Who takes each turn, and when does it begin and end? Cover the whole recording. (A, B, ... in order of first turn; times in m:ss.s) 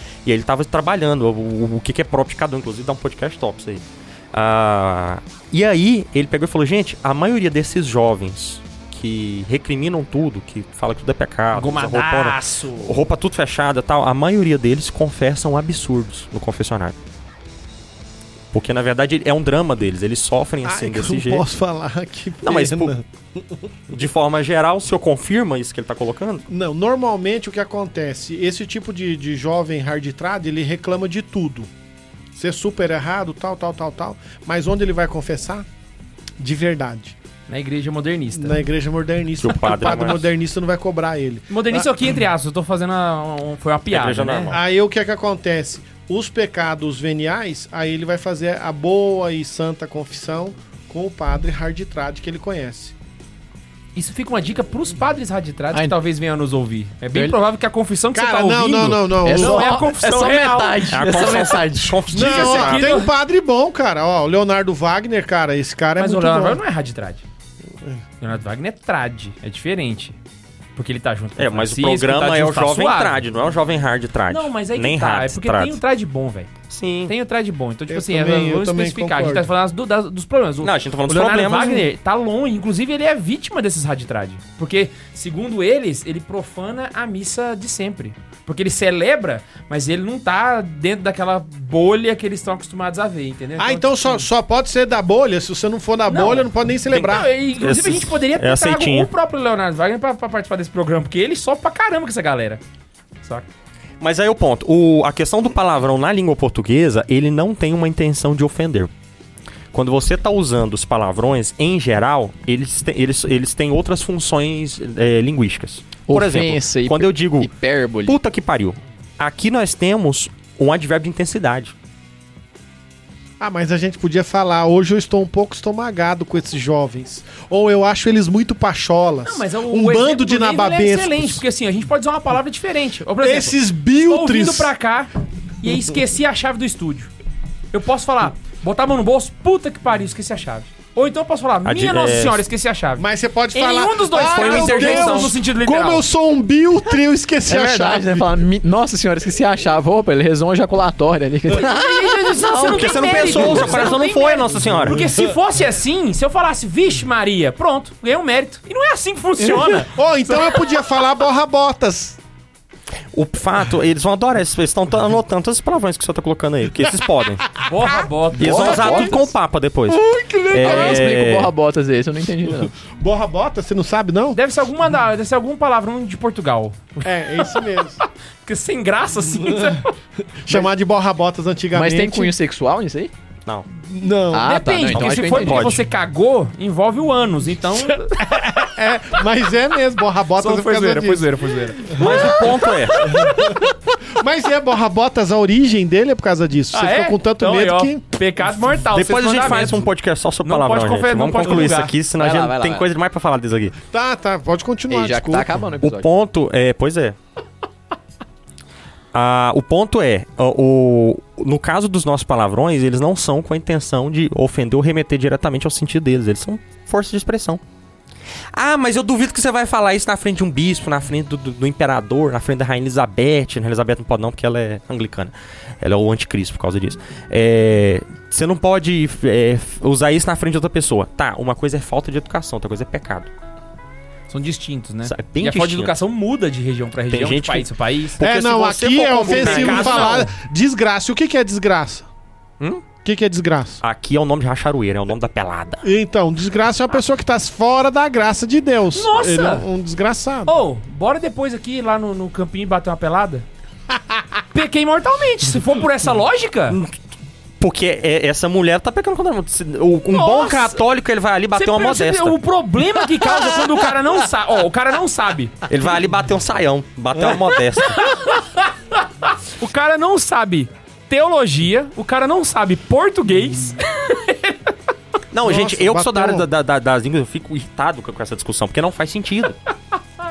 0:00.2-0:17.0 A
0:11.5-0:13.0 B
0:18.5-0:21.4 A
0:20.6-0:23.6 C
0:22.4-0:22.9 A
0:23.9-0:26.5 A
0:26.5-0:31.7 C
0:32.3-0:35.7 C
0:36.4-0:37.1 C
0:37.5-0:38.6 B
0:38.3-0:41.9 C
0:39.4-0:40.3 A
0:41.5-0:44.5 B
0:43.9-0:44.6 A
0:44.5-0:52.9 C
0:53.9-1:01.2 B
0:55.7-0:56.0 D
0:58.1-0:59.8 C
0:59.2-1:02.0 D
1:00.9-1:03.0 A
1:02.1-1:06.6 C
1:02.1-1:03.1 B
1:06.0-1:07.2 B
1:08.2-1:10.2 B
1:10.8-1:13.2 B
1:11.4-1:15.8 A
1:14.3-1:16.5 B
1:16.7-1:17.1 A
1:17.1-1:34.2 B
1:17.9-1:19.5 C
1:20.6-1:21.9 A
1:33.6-1:37.3 C
1:36.1-1:42.6 B
1:36.9-1:39.1 A
1:43.2-1:43.5 B
1:44.0-1:48.9 A
1:49.7-1:57.5 A
1:56.1-1:58.2 D
1:58.0-2:01.7 A
2:03.4-2:11.4 C
2:09.2-2:17.1 B
2:13.2-2:14.7 C
2:17.7-2:26.0 B
2:21.6-2:22.4 A
2:23.0-2:28.4 C
2:24.1-2:25.4 A
2:27.4-2:33.6 D
2:31.5-2:39.9 B
2:32.5-2:35.0 A
2:33.3-2:33.9 C
2:34.6-2:35.4 C
2:39.5-2:42.2 C
2:43.1-2:47.5 A
2:47.6-2:49.3 B
2:48.4-2:51.5 A
2:48.4-2:49.2 D
2:49.9-2:52.7 D
2:50.6-2:51.0 C
2:52.9-2:54.4 C
2:54.3-2:57.0 B
2:57.0-2:58.0 C
2:58.4-2:59.9 B
2:59.4-2:59.8 C
3:00.4-3:02.3 C
3:01.7-3:03.1 D
3:03.7-3:04.6 C
3:04.3-3:05.8 D
3:04.4-3:08.2 B
3:04.9-3:05.8 A
3:08.2-3:18.0 C
3:10.4-3:13.6 B
3:12.0-3:13.3 A
3:16.7-3:19.9 B
3:18.9-3:23.8 A
3:20.4-3:21.9 B
3:22.2-3:22.9 D
3:23.9-3:25.5 C
3:24.9-3:26.1 D
3:25.8-3:27.2 A
3:29.1-3:37.6 A
3:38.5-3:53.3 A
3:54.3-3:58.2 B
3:55.0-3:55.9 A
3:57.1-4:00.3 A
3:58.2-4:02.1 C
3:59.2-4:00.3 B
4:03.0-4:03.8 C
4:03.8-4:05.8 A
4:05.8-4:10.5 C
4:08.9-4:09.6 B
4:10.5-4:13.4 B
4:14.5-4:16.8 B
4:17.6-4:22.4 A
4:20.1-4:20.8 B
4:21.5-4:25.6 B
4:25.7-4:28.0 A
4:27.8-4:34.7 B
4:35.3-4:39.6 A
4:35.4-4:36.4 C